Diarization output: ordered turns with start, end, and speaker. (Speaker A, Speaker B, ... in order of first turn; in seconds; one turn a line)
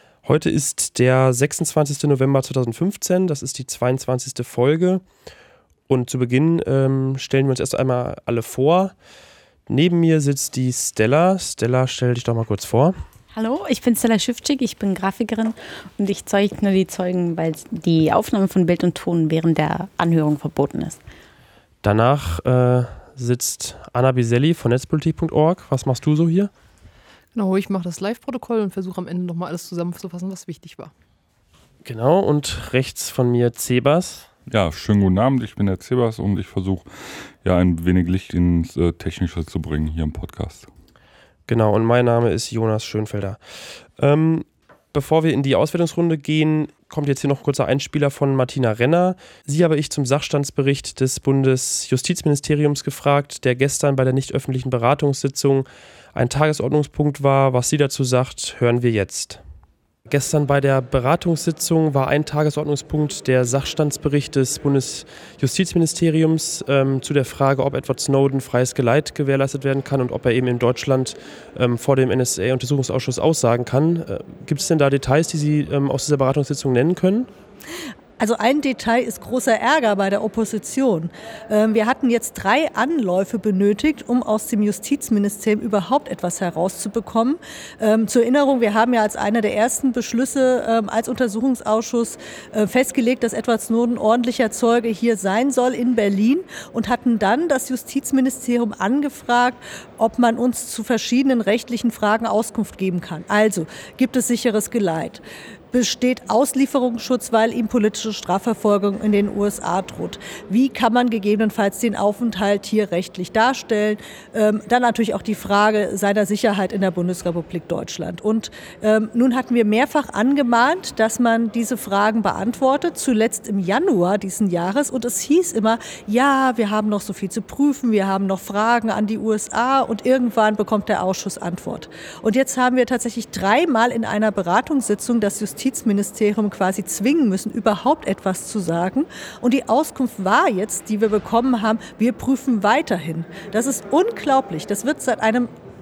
Speaker A: 0.2-5.0
Speaker A: 5.9-8.9
Speaker A: 9.7-12.9
Speaker B: 13.3-21.0
Speaker A: 21.8-26.5
Speaker C: 27.3-30.9
Speaker A: 31.8-34.3
Speaker D: 34.5-36.9
Speaker D: 37.4-40.7
Speaker A: 41.5-59.4
Speaker A: 60.1-77.3
Speaker E: 78.2-145.5